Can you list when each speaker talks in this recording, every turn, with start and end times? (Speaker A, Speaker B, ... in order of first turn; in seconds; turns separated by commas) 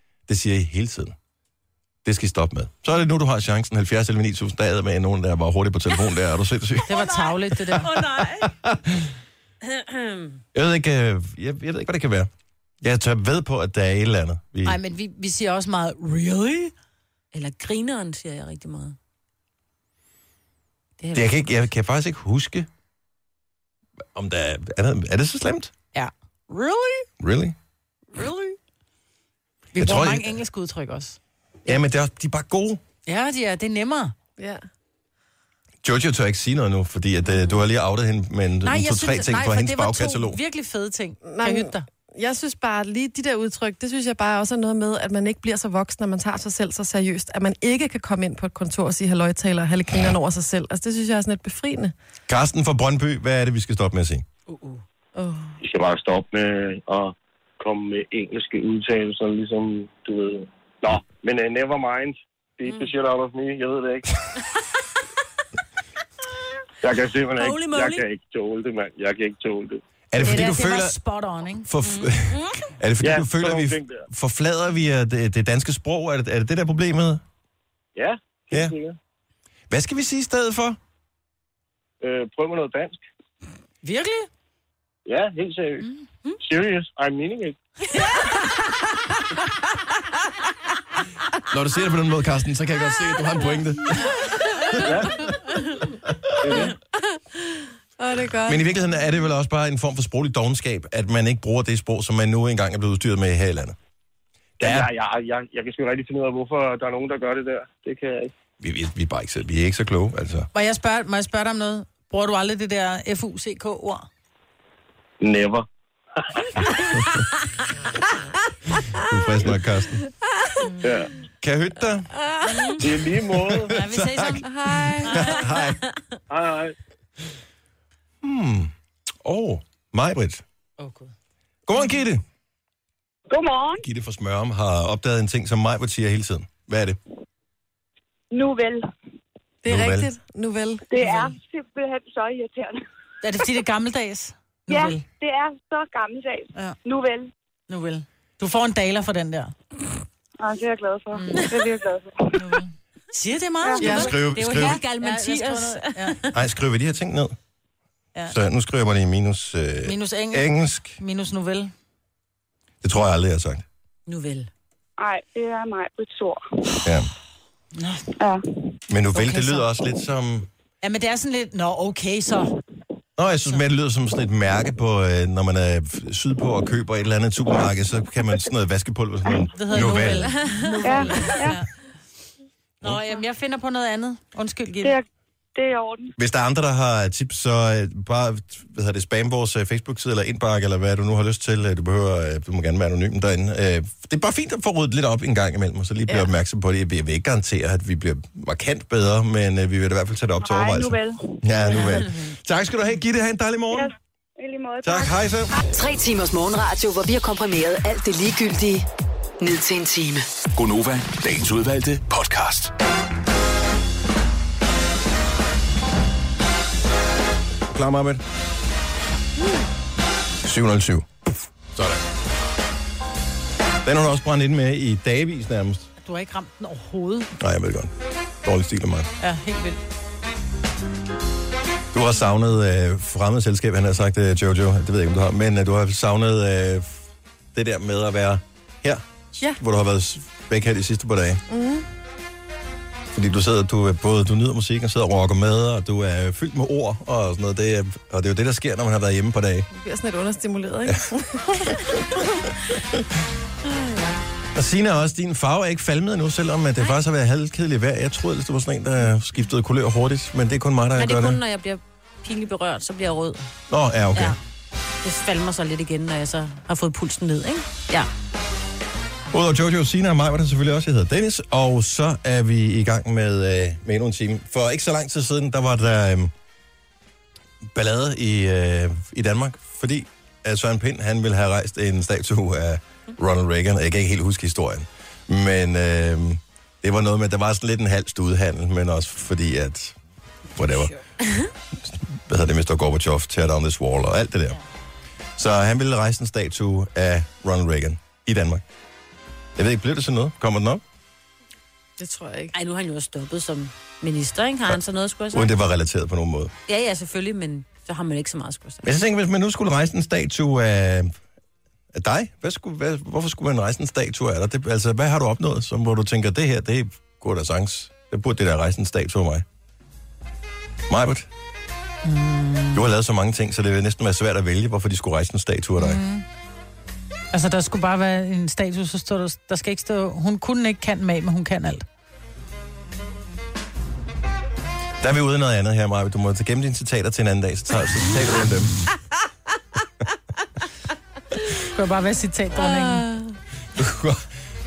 Speaker A: 0.3-1.1, Speaker A: 2.0-6.9, Speaker B: 6.9-8.5, Speaker C: 6.9-7.9, Speaker A: 8.0-9.1, Speaker B: 9.6-10.4, Speaker A: 10.5-12.3, Speaker A: 12.8-14.8, Speaker C: 14.6-16.7, Speaker B: 17.3-19.0, Speaker B: 21.0-21.2, Speaker A: 21.1-22.7, Speaker A: 24.1-25.7, Speaker C: 25.9-27.1, Speaker A: 27.2-27.6, Speaker C: 28.1-28.6, Speaker C: 29.7-31.2, Speaker A: 29.8-30.3, Speaker A: 31.7-32.8, Speaker C: 33.1-34.1, Speaker D: 34.4-34.6, Speaker A: 35.8-40.4, Speaker C: 38.6-41.9, Speaker D: 41.2-51.9, Speaker A: 52.3-54.2, Speaker C: 54.5-54.8, Speaker D: 55.2-55.5, Speaker E: 55.6-64.1, Speaker E: 66.8-69.8, Speaker B: 67.4-68.0, Speaker A: 70.1-71.0, Speaker C: 70.2-71.7, Speaker A: 71.7-77.2, Speaker B: 71.8-72.7, Speaker E: 73.0-74.0, Speaker E: 78.0-79.0, Speaker A: 79.7-80.8, Speaker E: 82.0-83.0, Speaker C: 83.8-84.3, Speaker E: 85.1-85.9, Speaker E: 86.4-87.6, Speaker C: 88.0-88.6, Speaker A: 91.5-94.2, Speaker A: 94.8-95.0, Speaker E: 94.8-95.3, Speaker A: 96.0-96.7, Speaker E: 96.4-96.8, Speaker D: 97.5-98.6, Speaker A: 98.5-103.8, Speaker E: 104.6-108.3, Speaker A: 104.6-104.9, Speaker A: 108.6-110.5, Speaker C: 110.5-114.1, Speaker E: 115.2-115.7, Speaker E: 116.2-116.9, Speaker A: 119.0-120.0, Speaker E: 120.8-121.1, Speaker A: 121.4-122.1, Speaker B: 122.5-122.8, Speaker E: 122.8-123.8, Speaker A: 123.5-125.8, Speaker B: 123.8-124.4, Speaker C: 123.9-124.4, Speaker D: 124.5-125.4, Speaker B: 125.0-125.7, Speaker E: 126.3-126.8, Speaker A: 128.2-130.4, Speaker C: 130.8-131.1, Speaker A: 131.7-132.2, Speaker F: 133.3-133.8, Speaker A: 133.8-137.0, Speaker F: 138.3-138.9, Speaker D: 139.6-140.8, Speaker A: 139.7-140.1, Speaker F: 140.9-142.8, Speaker C: 141.0-141.3, Speaker C: 143.2-145.0, Speaker F: 144.7-147.3, Speaker C: 147.7-149.5, Speaker F: 150.4-152.6, Speaker C: 151.2-151.5, Speaker C: 152.3-156.2, Speaker F: 153.6-154.1, Speaker A: 153.8-154.8, Speaker B: 153.8-156.3, Speaker A: 156.3-157.4, Speaker A: 158.3-161.0, Speaker C: 159.8-161.7, Speaker A: 162.8-163.7, Speaker B: 164.1-164.5, Speaker F: 165.0-166.4, Speaker A: 166.8-167.1, Speaker C: 167.8-168.0, Speaker A: 168.9-170.5, Speaker C: 169.1-169.7, Speaker C: 170.8-172.5, Speaker A: 173.2-180.5, Speaker C: 179.5-181.7, Speaker B: 180.2-181.0, Speaker F: 180.8-181.6, Speaker B: 182.8-183.2, Speaker C: 182.8-184.9, Speaker F: 184.8-186.2, Speaker A: 186.2-203.9, Speaker F: 200.4-201.9, Speaker F: 203.7-205.2, Speaker A: 204.8-205.5, Speaker G: 205.7-208.9, Speaker G: 209.4-210.2, Speaker H: 210.5-212.7, Speaker A: 217.7-218.2, Speaker A: 220.4-221.1, Speaker A: 221.8-222.0, Speaker A: 223.8-225.9, Speaker C: 226.0-227.3, Speaker A: 227.4-229.1, Speaker C: 229.2-229.8, Speaker A: 231.9-237.0, Speaker A: 237.5-241.4, Speaker D: 241.5-241.9, Speaker A: 243.1-249.7, Speaker D: 249.7-252.1, Speaker A: 250.9-251.8, Speaker B: 253.7-254.2, Speaker A: 254.5-261.4, Speaker B: 261.0-263.5, Speaker A: 263.7-264.4, Speaker B: 265.0-268.1, Speaker A: 269.3-276.3, Speaker A: 277.7-290.0, Speaker A: 290.5-291.0, Speaker B: 291.2-291.5, Speaker A: 291.8-294.6, Speaker A: 295.4-298.6, Speaker A: 299.6-300.8, Speaker D: 302.0-302.5, Speaker B: 302.5-305.5, Speaker A: 305.3-306.5, Speaker B: 306.7-308.8, Speaker A: 308.8-311.1, Speaker A: 311.9-319.4, Speaker A: 320.9-321.3, Speaker C: 322.0-322.8, Speaker A: 322.7-326.0, Speaker C: 325.8-326.2, Speaker C: 327.3-331.9, Speaker A: 335.0-338.8, Speaker C: 341.7-343.1, Speaker D: 342.6-343.3, Speaker A: 343.8-344.3